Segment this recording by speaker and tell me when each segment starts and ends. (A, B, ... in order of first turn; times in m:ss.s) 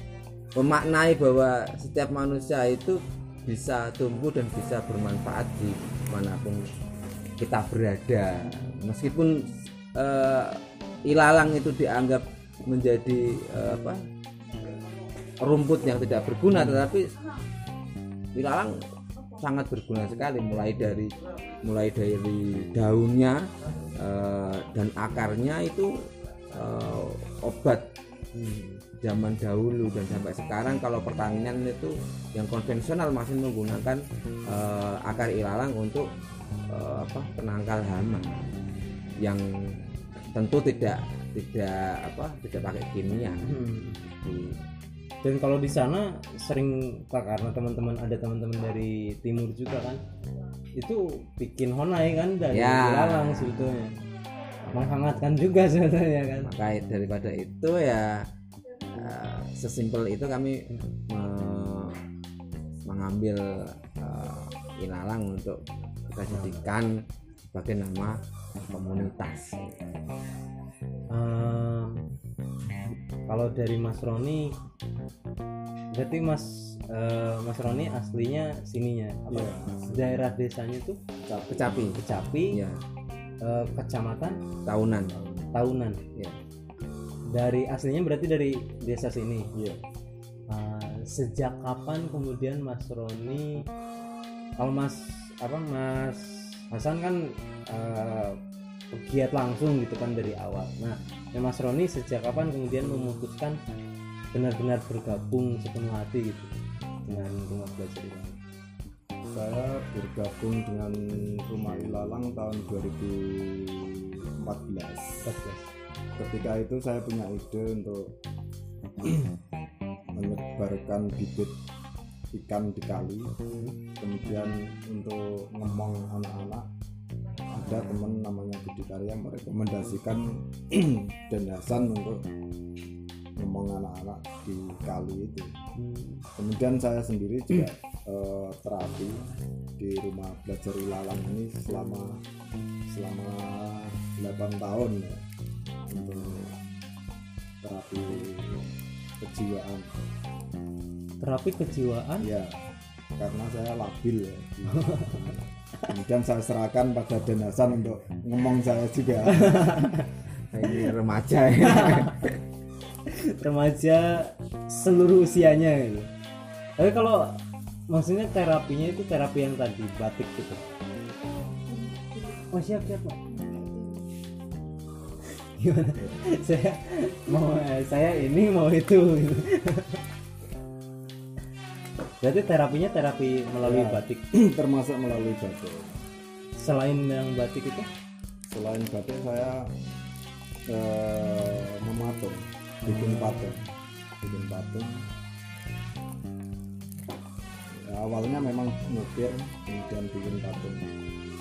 0:00.6-0:06.6 A
0:07.4-0:14.0 A
0:15.4-0:17.1 A
0:18.4-0:18.8 A
0:19.4-0:23.4 A
0:24.0-0:26.0 A
0:26.5-0:27.9 A
0:28.4-0:28.8 B
0:29.0-0:36.1 A
0:36.7-0:38.5 A
0:39.2-0:39.8 A
0:40.3-0:44.6 A
0:43.5-0:44.0 B
0:45.2-0:50.0 B
0:50.8-0:54.0 B
0:52.5-0:53.8 A
0:54.7-0:56.5 B
0:56.4-0:58.3 A
0:58.9-1:02.0 A
1:02.9-1:07.0 A
1:06.3-1:06.6 B
1:07.5-1:09.8 A
1:11.1-1:12.0 B
1:13.3-1:14.5 B
1:15.9-1:21.0 B
1:19.3-1:20.2 C
1:21.2-1:21.9 C
1:21.5-1:22.0 A
1:22.0-1:22.6 B
1:22.5-1:22.8 A
1:23.4-1:24.4 B
1:24.7-1:25.1 A
1:25.1-1:25.5 C
1:25.5-1:26.0 B
1:26.1-1:26.4 A
1:27.3-1:29.5 B
1:29.6-1:29.8 C
1:30.5-1:33.7 B
1:34.6-1:38.4 B
1:38.9-1:43.6 B
1:44.3-1:48.4 B
1:49.3-1:55.3 C
1:55.2-1:55.7 B
1:56.2-1:58.2 C
1:59.0-1:59.3 C
2:00.2-2:01.6 C
2:02.3-2:03.4 C
2:04.0-2:06.7 C
2:07.5-2:12.2 C
2:13.4-2:15.6 C
2:15.8-2:16.3 B
2:16.4-2:22.2 C
2:22.9-2:25.2 C
2:25.9-2:26.6 C
2:27.6-2:30.0 C
2:31.2-2:32.3 B
2:32.2-2:32.6 C
2:33.2-2:39.8 C
2:34.8-2:35.2 B
2:39.3-2:40.1 B
2:40.5-2:42.4 A
2:41.7-2:42.2 B
2:43.0-2:46.1 B
2:46.8-2:50.6 B
2:52.3-2:53.6 B
2:55.4-3:00.0 B
3:02.2-3:04.2 B
3:03.6-3:06.0 C
3:06.6-3:07.9 B
3:08.5-3:09.7 C
3:10.7-3:13.6 C
3:12.8-3:13.5 B
3:14.2-3:15.1 C
3:17.7-3:20.9 C